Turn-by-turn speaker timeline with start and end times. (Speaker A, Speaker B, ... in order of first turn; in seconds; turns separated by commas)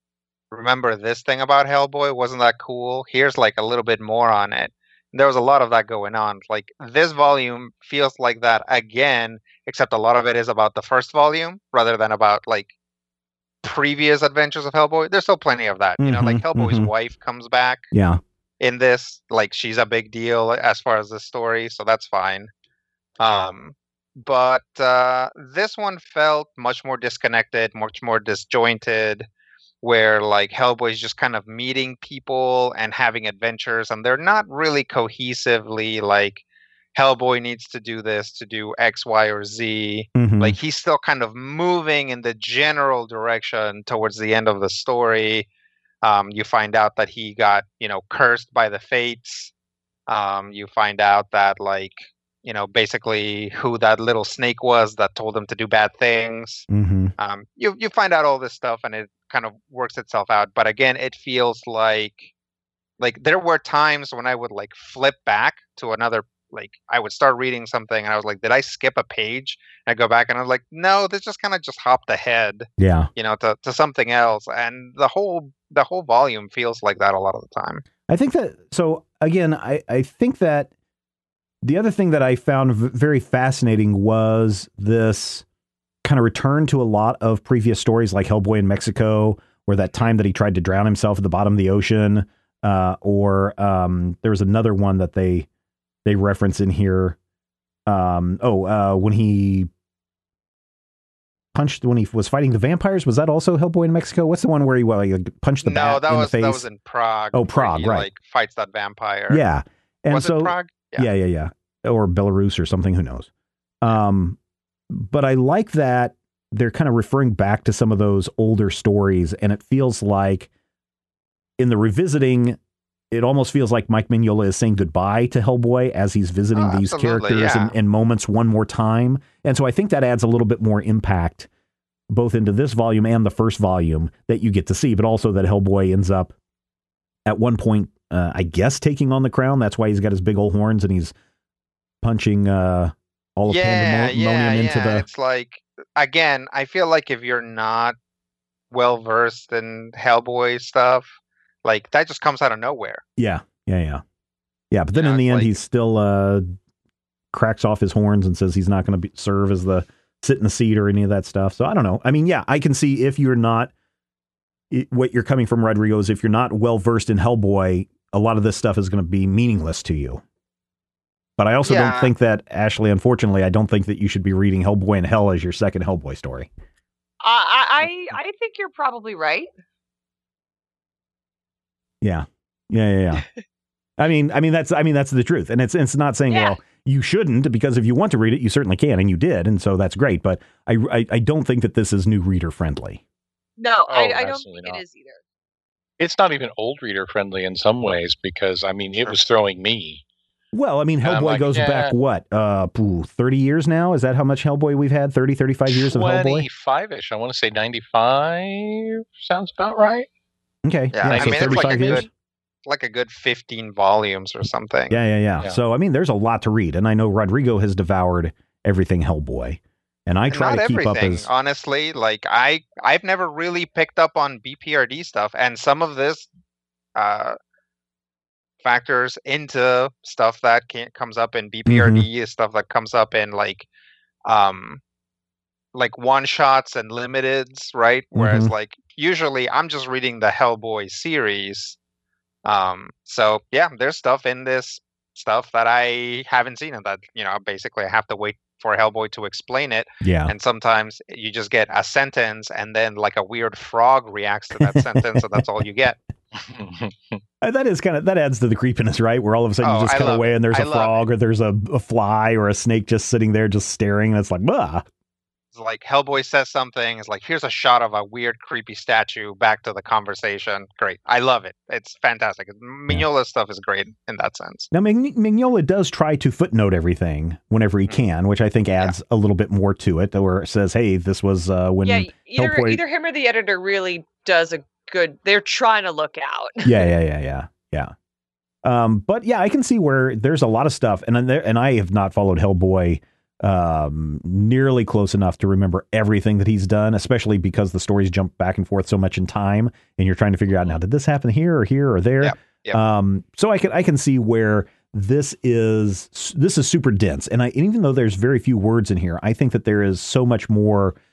Speaker A: 0.5-12.7, Speaker A: 13.6-17.9, Speaker B: 16.0-16.9, Speaker B: 17.9-18.2, Speaker A: 18.6-22.5, Speaker A: 23.2-29.3, Speaker A: 29.8-36.4, Speaker A: 37.0-45.5, Speaker B: 40.1-40.6, Speaker A: 46.0-49.5, Speaker A: 50.1-56.7, Speaker B: 56.7-57.1, Speaker A: 57.2-62.3, Speaker A: 63.0-77.8, Speaker B: 72.8-73.1, Speaker B: 78.1-80.7, Speaker B: 81.6-85.4, Speaker B: 86.0-95.5, Speaker B: 96.0-97.2, Speaker B: 97.9-99.7, Speaker B: 101.5-106.7, Speaker A: 105.6-109.4, Speaker B: 107.3-108.1, Speaker B: 109.3-113.3, Speaker A: 110.1-111.1, Speaker B: 113.8-114.4, Speaker B: 114.9-120.5, Speaker B: 121.6-122.6, Speaker B: 123.1-131.5, Speaker A: 126.5-127.7, Speaker B: 132.1-136.3, Speaker B: 137.3-141.1, Speaker B: 142.0-145.1, Speaker A: 143.5-148.0, Speaker A: 148.7-153.0, Speaker B: 153.2-154.0, Speaker B: 154.7-156.6, Speaker A: 154.9-155.6, Speaker B: 157.3-163.7, Speaker B: 164.7-170.2, Speaker B: 171.4-176.5, Speaker A: 171.7-172.1, Speaker C: 177.2-179.5, Speaker B: 182.0-183.3, Speaker B: 184.0-193.0, Speaker C: 186.3-186.6, Speaker C: 193.6-195.2, Speaker D: 193.9-194.8, Speaker D: 196.0-200.0, Speaker B: 200.5-206.5, Speaker D: 201.0-201.9, Speaker D: 205.7-210.1, Speaker B: 210.7-212.1, Speaker A: 210.9-212.1, Speaker D: 211.1-211.9, Speaker A: 212.7-215.0, Speaker B: 214.9-221.3, Speaker A: 220.3-226.3, Speaker A: 226.9-227.4, Speaker A: 228.6-233.7, Speaker B: 231.7-232.1, Speaker A: 234.3-234.8, Speaker A: 235.7-241.8, Speaker B: 238.2-238.5, Speaker A: 242.4-256.0, Speaker B: 250.0-250.3, Speaker B: 254.6-255.3, Speaker D: 256.3-257.2, Speaker B: 257.4-264.9, Speaker A: 259.6-261.0, Speaker A: 265.5-274.7, Speaker B: 274.7-282.8, Speaker C: 281.8-286.8, Speaker B: 286.6-287.9, Speaker B: 288.6-311.0, Speaker A: 302.2-302.8